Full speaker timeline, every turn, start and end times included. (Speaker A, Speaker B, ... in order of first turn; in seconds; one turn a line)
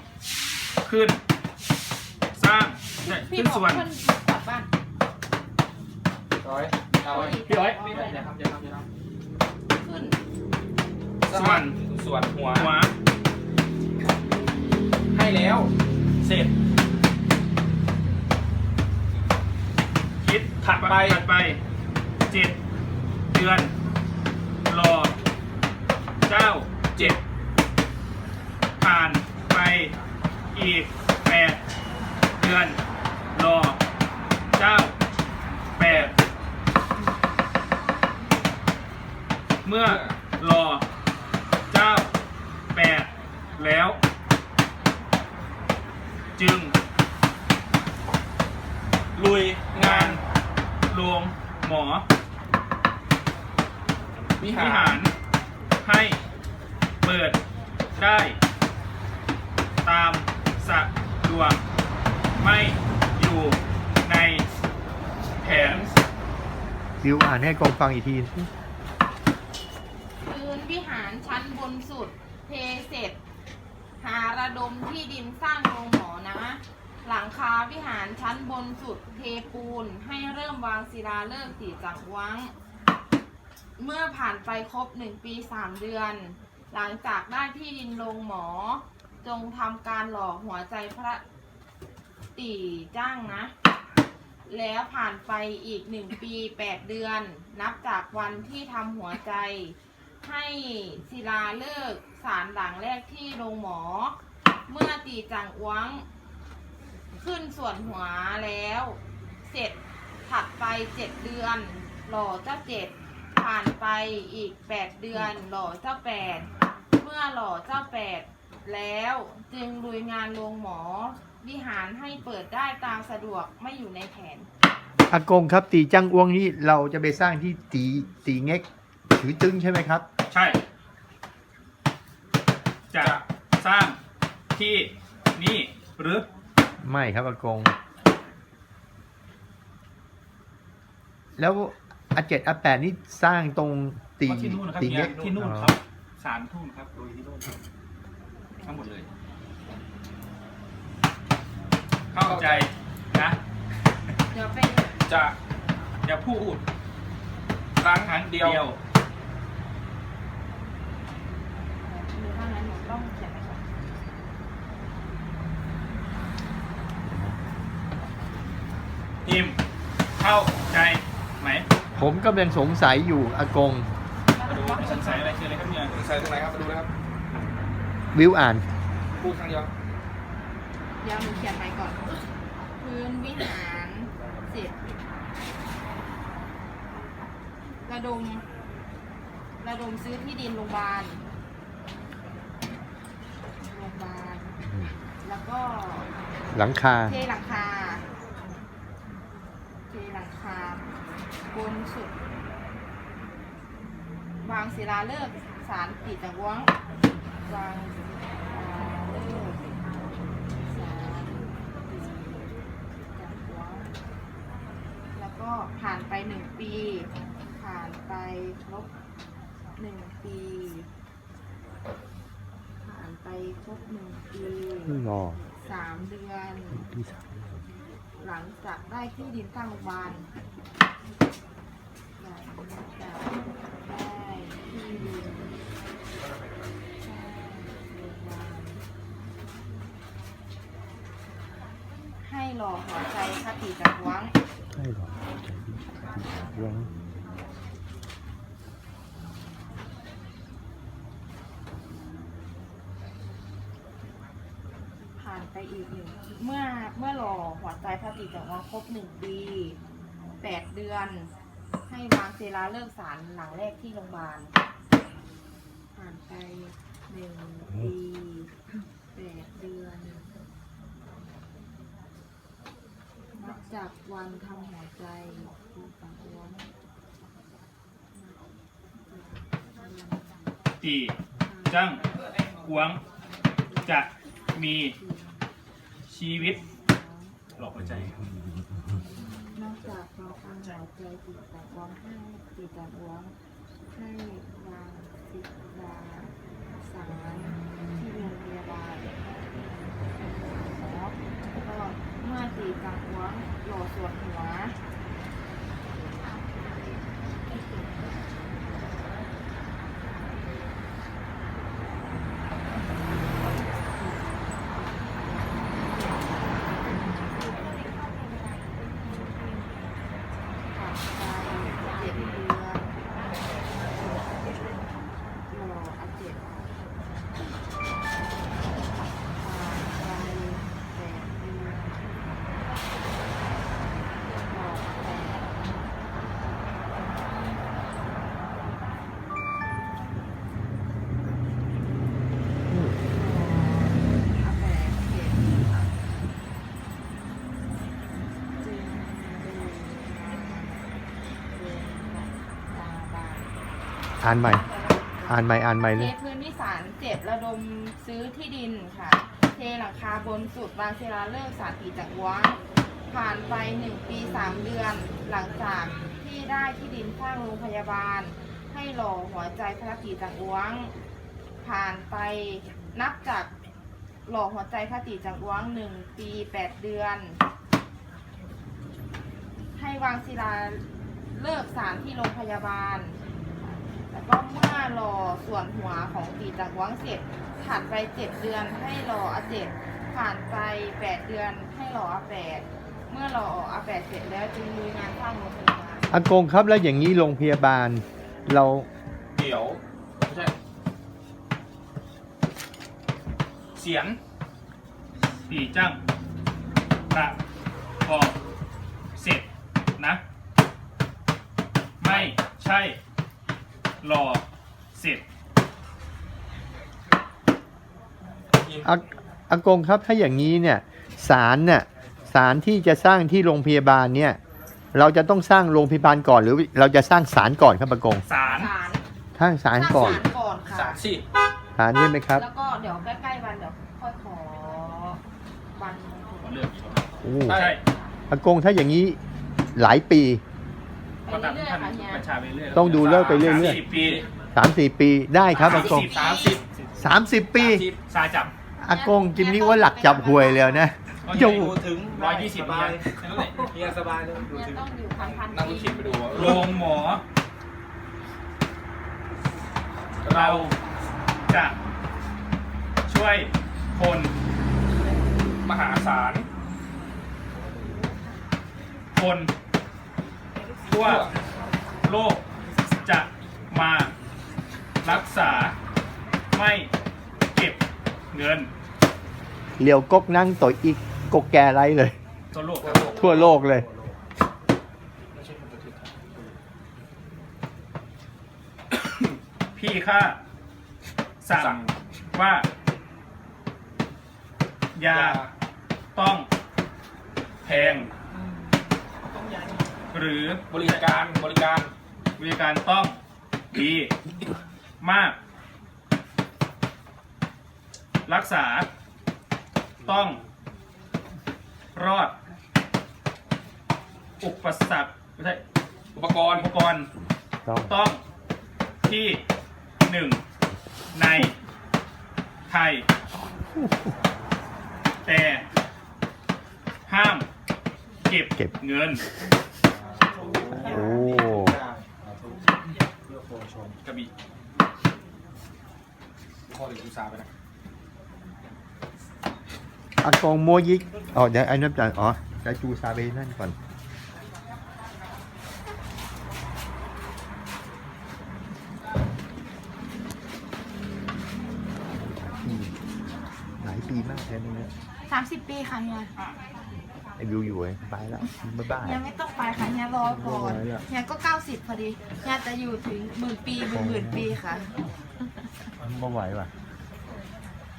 Speaker A: 0.8-1.2
Speaker A: 2.4-3.9
Speaker B: 3.0-4.7
Speaker C: 6.4-8.8
Speaker B: 6.9-8.3
Speaker A: 7.2-7.9
Speaker B: 9.8-10.2
Speaker C: 11.3-12.7
Speaker A: 11.3-11.7
Speaker A: 12.5-12.9
Speaker C: 15.1-16.5
Speaker A: 20.2-21.6
Speaker C: 20.6-21.2
Speaker A: 22.3-22.6
Speaker A: 23.3-23.7
Speaker A: 24.6-25.1
Speaker A: 26.3-27.2
Speaker A: 28.8-29.9
Speaker A: 30.5-31.6
Speaker A: 32.4-32.8
Speaker A: 33.3-33.8
Speaker A: 34.5-35.0
Speaker A: 35.8-36.1
Speaker C: 35.9-36.1
Speaker A: 39.6-40.8
Speaker C: 39.8-40.1
Speaker A: 41.7-42.1
Speaker A: 42.7-44.0
Speaker A: 46.4-46.7
Speaker C: 49.1-50.2
Speaker A: 49.7-50.2
Speaker A: 50.9-52.0
Speaker C: 54.4-55.0
Speaker A: 54.5-55.1
Speaker A: 55.8-56.2
Speaker A: 57.0-57.4
Speaker A: 58.0-58.4
Speaker A: 59.8-61.6
Speaker A: 62.4-64.4
Speaker A: 65.4-65.9
Speaker D: 67.0-68.5
Speaker B: 70.2-73.2
Speaker B: 74.0-82.5
Speaker B: 83.8-91.2
Speaker B: 92.3-93.5
Speaker B: 94.5-104.1
Speaker B: 104.7-106.0
Speaker B: 107.2-124.5
Speaker D: 125.1-130.0
Speaker A: 130.3-130.6
Speaker A: 132.9-134.0
Speaker A: 134.5-136.2
Speaker D: 136.8-137.7
Speaker D: 141.4-145.7
Speaker A: 144.2-147.4
Speaker A: 148.6-149.1
Speaker C: 152.1-152.7
Speaker A: 152.1-153.4
Speaker B: 154.3-154.9
Speaker C: 155.1-155.3
Speaker A: 156.0-156.6
Speaker C: 157.8-158.6
Speaker A: 158.0-158.8
Speaker B: 161.8-163.6
Speaker A: 169.2-169.6
Speaker A: 170.2-171.7
Speaker D: 171.9-173.9
Speaker B: 174.3-175.3
Speaker A: 174.5-175.9
Speaker C: 174.5-175.1
Speaker C: 175.9-176.9
Speaker D: 178.1-178.6
Speaker C: 179.2-179.7
Speaker B: 181.0-182.2
Speaker B: 182.8-184.8
Speaker B: 187.8-188.4
Speaker B: 189.6-191.2
Speaker B: 193.7-194.5
Speaker B: 195.2-196.1
Speaker D: 196.5-197.2
Speaker B: 197.0-198.0
Speaker B: 199.9-200.9
Speaker B: 201.5-202.1
Speaker B: 204.4-206.7
Speaker B: 207.4-209.6
Speaker B: 210.7-212.5
Speaker B: 213.1-213.9
Speaker B: 215.1-218.9
Speaker B: 219.8-220.9
Speaker B: 222.8-225.0
Speaker D: 224.9-225.4
Speaker B: 225.6-226.8
Speaker D: 226.8-227.2
Speaker B: 228.2-230.3
Speaker B: 232.2-235.6
Speaker B: 237.0-238.8
Speaker B: 242.2-244.3
Speaker D: 244.7-246.9
Speaker B: 255.2-259.8
Speaker B: 260.4-261.3
Speaker B: 261.9-264.5
Speaker B: 265.9-268.5
Speaker B: 269.1-270.3
Speaker B: 273.4-276.7
Speaker B: 279.1-280.4
Speaker A: 280.8-281.1
Speaker B: 281.4-281.7
Speaker A: 281.7-282.0
Speaker A: 282.6-283.0
Speaker B: 283.7-284.0
Speaker A: 283.9-284.9
Speaker B: 285.0-285.4
Speaker A: 286.1-286.6
Speaker B: 286.4-287.4
Speaker A: 287.6-288.1
Speaker B: 289.5-293.3
Speaker B: 293.9-299.1
Speaker B: 300.2-304.8
Speaker B: 314.0-316.9
Speaker B: 320.7-322.9
Speaker B: 325.5-326.7
Speaker B: 329.3-332.1
Speaker B: 334.4-335.6
Speaker B: 343.1-345.9
Speaker B: 348.6-350.9
Speaker B: 351.5-353.5
Speaker D: 354.2-354.6
Speaker B: 354.4-362.6
Speaker D: 355.3-356.1
Speaker B: 363.1-370.9
Speaker B: 371.6-373.5
Speaker B: 374.2-377.4
Speaker B: 379.8-383.2
Speaker B: 384.1-396.1
Speaker D: 396.1-398.9
Speaker C: 399.3-400.5
Speaker C: 403.8-404.2
Speaker A: 405.5-406.0
Speaker A: 407.1-407.4
Speaker A: 408.0-408.3
Speaker A: 409.1-410.2
Speaker A: 412.0-413.0
Speaker C: 412.1-412.3
Speaker A: 414.0-414.4
Speaker A: 414.9-415.2
Speaker C: 418.6-418.9
Speaker D: 418.8-424.4
Speaker D: 424.9-428.2
Speaker A: 428.2-428.7
Speaker B: 428.5-429.0
Speaker D: 429.4-430.2
Speaker B: 429.7-431.0
Speaker C: 429.9-431.2
Speaker D: 431.8-432.4
Speaker B: 432.3-435.2
Speaker B: 435.7-436.6
Speaker A: 436.4-437.8
Speaker D: 437.2-437.6
Speaker C: 437.4-437.8
Speaker D: 438.3-439.2
Speaker D: 439.7-440.4
Speaker B: 441.2-442.2
Speaker A: 441.3-444.2
Speaker D: 442.7-443.8
Speaker C: 443.1-444.2
Speaker D: 444.5-446.1
Speaker B: 445.5-446.6
Speaker A: 445.7-446.9
Speaker C: 445.7-446.6
Speaker D: 447.0-447.8
Speaker C: 447.6-447.9
Speaker A: 447.6-448.5
Speaker D: 448.8-451.8
Speaker B: 448.9-450.9
Speaker A: 451.2-453.7
Speaker C: 451.3-454.8
Speaker B: 454.4-456.5
Speaker C: 455.5-456.8
Speaker A: 456.3-457.2
Speaker C: 460.2-460.7
Speaker A: 460.3-460.8
Speaker A: 461.5-461.8
Speaker A: 463.1-464.3
Speaker C: 465.6-466.4
Speaker A: 469.1-469.5
Speaker A: 470.9-471.3
Speaker C: 470.9-471.3
Speaker A: 472.0-472.4
Speaker A: 473.0-474.1
Speaker A: 475.0-475.7
Speaker A: 476.5-476.9
Speaker A: 477.5-477.8
Speaker A: 478.3-478.7
Speaker D: 479.8-482.1
Speaker A: 482.5-483.2
Speaker C: 482.8-483.6
Speaker D: 483.1-483.9
Speaker C: 485.3-486.5
Speaker A: 489.8-490.4
Speaker A: 491.4-491.8
Speaker C: 491.5-491.9
Speaker A: 492.3-492.6
Speaker A: 494.9-495.4
Speaker C: 495.0-495.5
Speaker A: 496.1-496.5
Speaker C: 497.6-498.1
Speaker A: 497.6-498.1
Speaker A: 500.1-501.0
Speaker C: 500.7-501.9
Speaker A: 502.4-503.2
Speaker A: 503.7-504.1
Speaker A: 505.0-505.4
Speaker A: 508.2-508.9
Speaker A: 510.0-510.4
Speaker A: 511.9-512.3
Speaker A: 514.4-515.6
Speaker C: 516.1-516.7
Speaker A: 516.5-517.1
Speaker D: 517.6-517.9
Speaker A: 517.9-518.2
Speaker A: 519.0-519.4
Speaker A: 520.0-520.4
Speaker A: 521.1-521.5
Speaker A: 522.7-523.0
Speaker A: 525.2-525.6
Speaker A: 527.1-527.5
Speaker A: 528.3-529.2
Speaker C: 530.3-531.9
Speaker D: 530.6-531.8
Speaker C: 536.7-537.5
Speaker D: 540.2-543.7
Speaker D: 552.3-552.9
Speaker D: 553.8-554.9
Speaker B: 555.3-556.3
Speaker D: 557.4-559.2
Speaker B: 559.0-564.9
Speaker D: 560.2-561.0
Speaker D: 563.9-564.5
Speaker D: 566.0-566.7